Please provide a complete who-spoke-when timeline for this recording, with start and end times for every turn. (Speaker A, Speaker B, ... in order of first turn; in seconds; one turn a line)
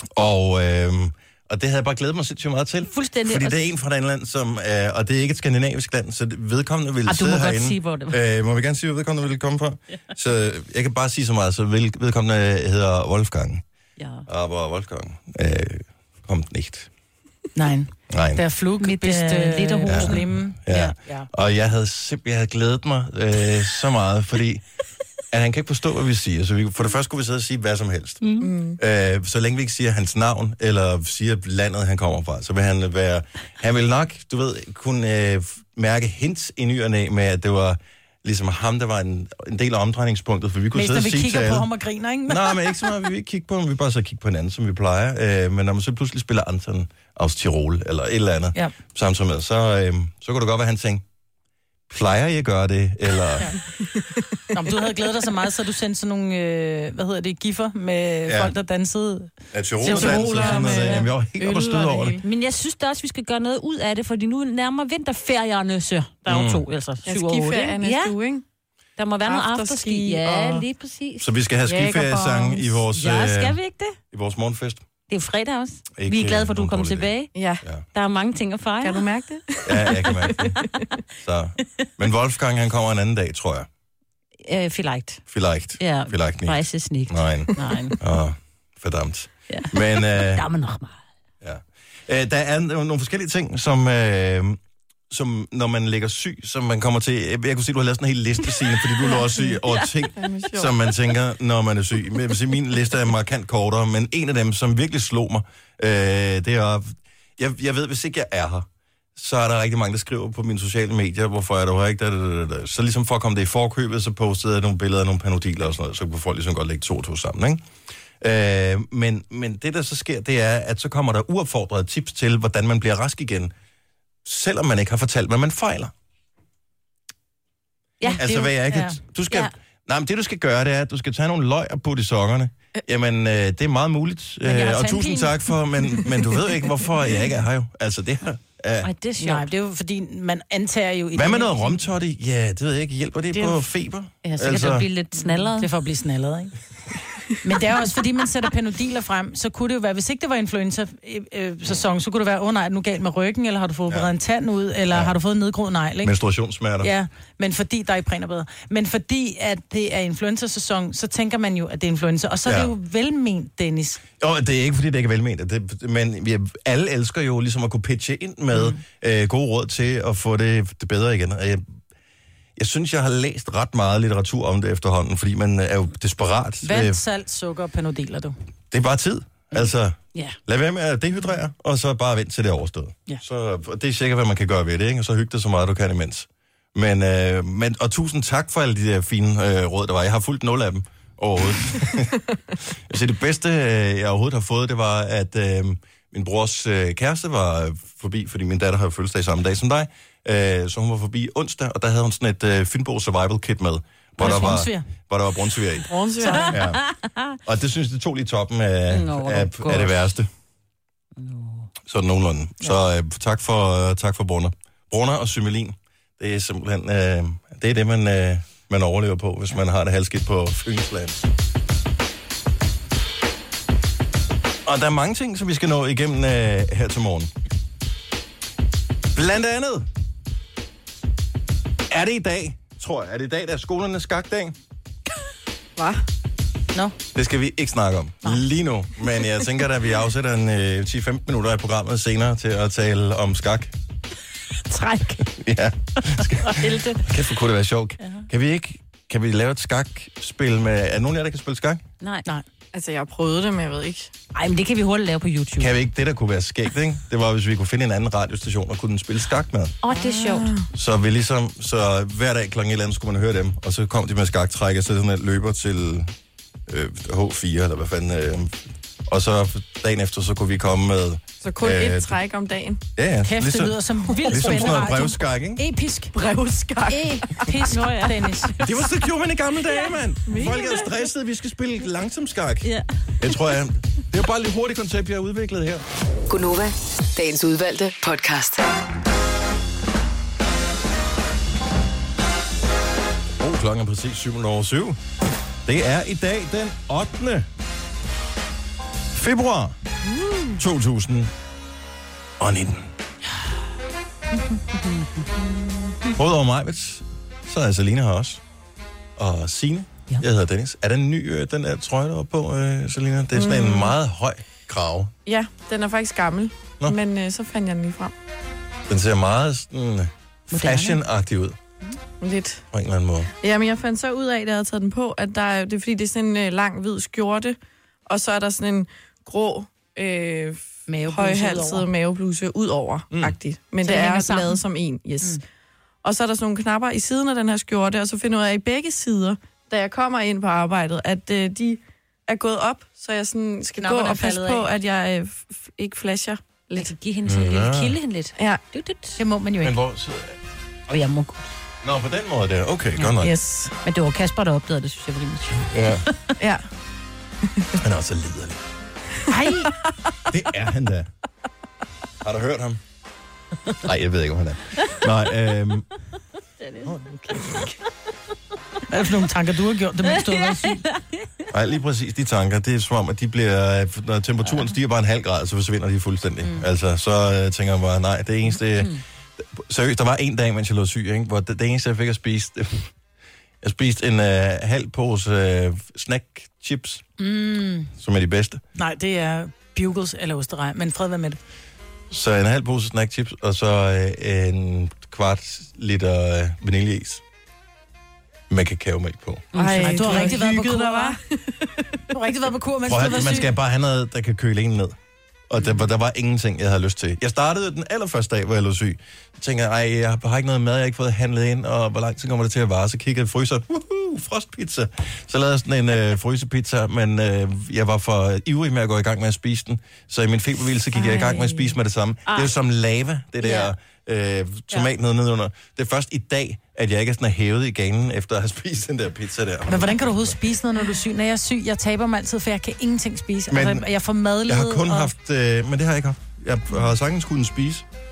Speaker A: 0.1-13.6
Speaker B: 2.9-3.6
Speaker B: 7.0-8.2
Speaker B: 14.0-14.2
Speaker A: 14.3-16.9
Speaker C: 17.6-21.3
Speaker A: 18.1-18.4
Speaker B: 18.8-20.2
Speaker A: 19.9-24.6
Speaker A: 25.3-28.2
Speaker B: 28.2-28.5
Speaker D: 28.4-28.8
Speaker A: 28.8-41.7
Speaker C: 40.7-42.9
Speaker A: 42.3-51.0
Speaker A: 51.9-53.5
Speaker C: 54.5-61.0
Speaker A: 58.3-58.5
Speaker A: 59.5-62.2
Speaker D: 59.9-62.2
Speaker B: 62.2-68.1
Speaker A: 66.3-66.6
Speaker D: 67.0-68.4
Speaker B: 69.0-71.2
Speaker D: 69.2-70.6
Speaker A: 71.2-73.6
Speaker D: 71.7-72.8
Speaker B: 72.9-74.0
Speaker A: 74.1-74.9
Speaker B: 75.1-77.3
Speaker A: 75.9-77.1
Speaker D: 77.3-77.6
Speaker B: 77.9-79.0
Speaker D: 78.8-80.7
Speaker A: 79.7-80.6
Speaker A: 81.2-83.7
Speaker B: 84.4-85.2
Speaker A: 85.3-90.5
Speaker B: 85.8-88.0
Speaker B: 89.5-90.9
Speaker A: 91.4-94.6
Speaker A: 95.1-117.7
Speaker D: 99.2-99.5
Speaker D: 100.2-100.8
Speaker A: 118.2-123.5
Speaker A: 124.2-125.9
Speaker C: 128.0-129.0
Speaker A: 128.2-138.9
Speaker B: 134.4-135.3
Speaker B: 138.8-139.5
Speaker C: 139.2-141.8
Speaker A: 141.1-144.9
Speaker B: 144.2-145.7
Speaker C: 145.1-146.5
Speaker C: 147.4-156.1
Speaker A: 156.0-156.9
Speaker C: 156.8-164.0
Speaker A: 162.4-162.7
Speaker A: 164.2-171.7
Speaker A: 172.6-177.0
Speaker C: 176.6-178.3
Speaker A: 178.7-205.9
Speaker C: 204.2-204.9
Speaker D: 205.9-206.5
Speaker C: 206.2-206.5
Speaker A: 206.5-206.8
Speaker A: 207.4-210.3
Speaker B: 208.9-210.0
Speaker B: 211.2-211.7
Speaker A: 211.8-221.2
Speaker A: 224.7-227.3
Speaker A: 229.1-229.9
Speaker A: 231.9-234.6
Speaker D: 235.8-236.0
Speaker A: 237.1-243.7
Speaker A: 245.3-251.8
Speaker B: 246.6-247.0
Speaker B: 252.0-252.2
Speaker D: 252.7-254.1
Speaker B: 254.3-255.7
Speaker A: 255.6-259.8
Speaker B: 259.8-260.5
Speaker D: 259.9-260.7
Speaker A: 260.7-266.1
Speaker A: 266.7-272.1
Speaker D: 271.4-272.8
Speaker A: 272.9-273.8
Speaker C: 273.2-276.2
Speaker D: 274.1-274.5
Speaker A: 274.3-275.6
Speaker D: 276.1-277.4
Speaker C: 276.9-278.6
Speaker B: 277.7-278.5
Speaker A: 278.6-282.7
Speaker D: 280.3-280.8
Speaker A: 283.2-285.8
Speaker E: 286.3-288.6
Speaker A: 293.4-295.0
Speaker A: 295.6-297.5
Speaker A: 299.1-299.8
Speaker B: 300.1-300.6
Speaker A: 300.6-301.3
Speaker A: 302.4-302.9
Speaker B: 304.3-306.1
Speaker A: 306.1-308.4
Speaker A: 309.2-315.1
Speaker D: 313.3-313.9
Speaker D: 315.2-318.1
Speaker A: 318.9-321.6
Speaker B: 320.5-321.0
Speaker D: 322.2-322.6
Speaker A: 322.7-323.3
Speaker D: 323.4-335.4
Speaker C: 330.9-331.9
Speaker C: 333.8-334.6
Speaker D: 336.0-346.9
Speaker C: 343.8-344.6
Speaker B: 346.7-349.2
Speaker A: 347.2-348.0
Speaker C: 349.2-349.7
Speaker A: 349.6-350.4
Speaker B: 350.9-351.5
Speaker A: 351.8-353.3
Speaker D: 353.2-353.7
Speaker B: 353.8-355.7
Speaker A: 355.7-356.0
Speaker D: 356.4-356.6
Speaker D: 357.5-357.8
Speaker A: 357.8-358.6
Speaker C: 359.3-359.7
Speaker A: 360.3-361.1
Speaker A: 362.2-362.8
Speaker A: 363.8-365.9
Speaker B: 366.6-367.6
Speaker C: 368.9-370.8
Speaker B: 370.1-371.4
Speaker A: 371.5-382.9
Speaker A: 383.6-387.0
Speaker C: 387.2-387.9
Speaker A: 387.9-388.6
Speaker C: 388.8-391.4
Speaker A: 392.1-397.2
Speaker A: 398.5-399.5
Speaker B: 399.5-400.3
Speaker D: 399.5-402.0
Speaker C: 399.6-401.2
Speaker C: 402.1-403.5
Speaker A: 402.9-404.9
Speaker A: 405.5-430.3
Speaker D: 421.0-421.6
Speaker B: 423.4-423.7
Speaker C: 429.7-435.1
Speaker A: 433.5-433.9
Speaker A: 434.5-437.8